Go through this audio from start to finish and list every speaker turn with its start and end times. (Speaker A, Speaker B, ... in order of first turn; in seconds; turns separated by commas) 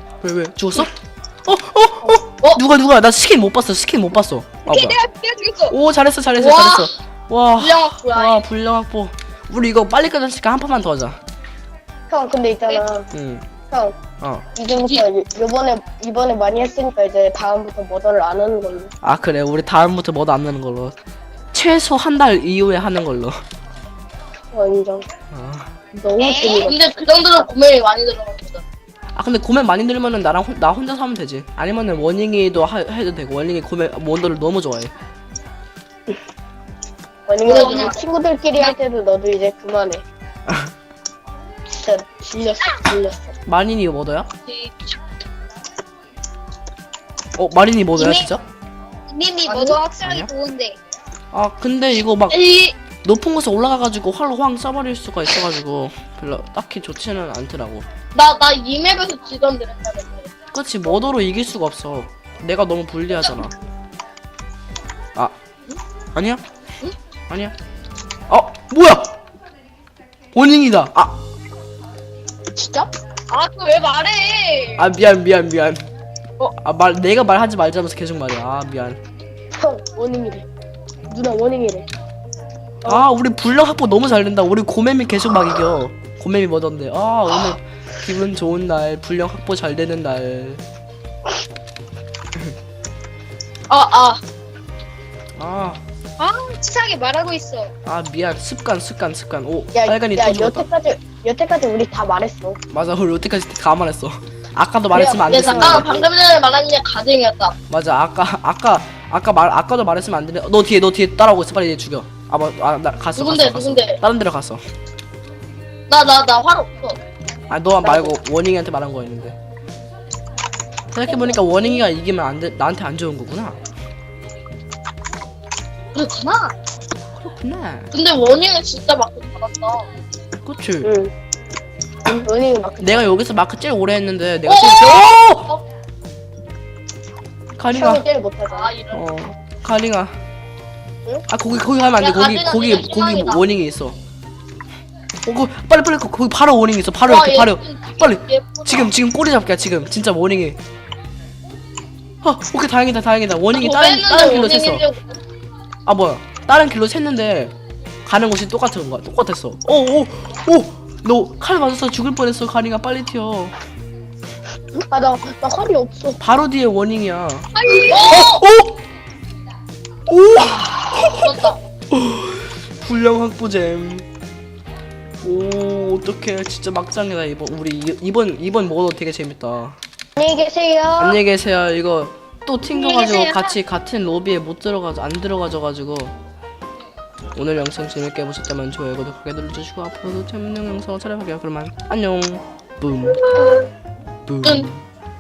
Speaker A: 0.2-0.9, Speaker A: 1.5-5.0, Speaker B: 4.7-5.8, Speaker A: 5.7-11.2, Speaker C: 6.4-6.9, Speaker C: 7.6-8.5, Speaker D: 12.1-13.1, Speaker A: 13.1-13.4, Speaker D: 13.7-14.0, Speaker D: 14.6-18.9, Speaker C: 14.7-15.0, Speaker A: 19.0-21.0, Speaker A: 21.5-23.4, Speaker D: 24.5-25.1, Speaker A: 25.3-25.7, Speaker D: 25.9-26.8, Speaker B: 26.2-26.7, Speaker C: 26.5-28.6, Speaker A: 29.1-34.9, Speaker D: 37.3-40.0, Speaker C: 37.5-38.0, Speaker B: 37.5-38.0, Speaker D: 41.7-43.3, Speaker A: 43.5-44.3, Speaker C: 44.5-44.9, Speaker A: 47.4-48.4, Speaker B: 48.0-48.3, Speaker B: 49.1-50.8, Speaker C: 49.5-49.8, Speaker A: 50.0-50.3, Speaker A: 51.3-52.5, Speaker C: 52.3-52.8, Speaker A: 53.0-57.9, Speaker C: 58.1-60.3, Speaker A: 60.5-63.5, Speaker A: 66.2-66.4, Speaker A: 68.3-69.2, Speaker A: 70.3-71.2, Speaker D: 72.5-72.9, Speaker B: 73.3-74.9, Speaker A: 74.8-75.9, Speaker A: 76.6-79.0, Speaker D: 79.6-80.5, Speaker D: 81.1-81.9, Speaker A: 82.9-90.6, Speaker C: 93.7-94.2, Speaker A: 95.4-95.8, Speaker B: 96.2-97.7, Speaker A: 97.8-100.7, Speaker D: 99.7-102.6, Speaker A: 102.7-106.0, Speaker D: 104.9-106.1, Speaker C: 105.2-107.5, Speaker A: 107.7-114.6, Speaker C: 113.2-114.0, Speaker C: 115.9-117.0, Speaker A: 117.5-119.4, Speaker D: 117.8-118.2, Speaker A: 120.9-123.6, Speaker C: 121.1-121.8, Speaker C: 125.9-126.5, Speaker A: 127.2-127.9, Speaker C: 127.9-129.9, Speaker A: 130.4-130.9, Speaker D: 130.8-131.1, Speaker D: 132.1-133.1, Speaker A: 132.8-135.5, Speaker C: 134.5-135.6, Speaker A: 137.6-138.1, Speaker D: 137.7-138.7, Speaker C: 138.5-139.1, Speaker A: 138.9-140.2, Speaker A: 141.3-144.0, Speaker C: 142.0-143.4, Speaker A: 145.3-150.6, Speaker C: 147.1-148.9, Speaker A: 152.2-154.8, Speaker C: 153.5-155.2, Speaker A: 155.9-157.5, Speaker A: 158.1-163.5, Speaker D: 164.9-166.2, Speaker A: 166.2-167.5, Speaker B: 167.6-168.1, Speaker C: 167.7-168.4, Speaker A: 168.0-168.8, Speaker A: 170.1-174.1, Speaker D: 170.4-171.2, Speaker C: 171.2-171.6, Speaker A: 175.2-179.8, Speaker D: 180.2-181.2, Speaker A: 181.0-186.2, Speaker B: 182.7-183.5, Speaker A: 187.3-193.2, Speaker C: 193.2-193.7, Speaker A: 194.3-194.8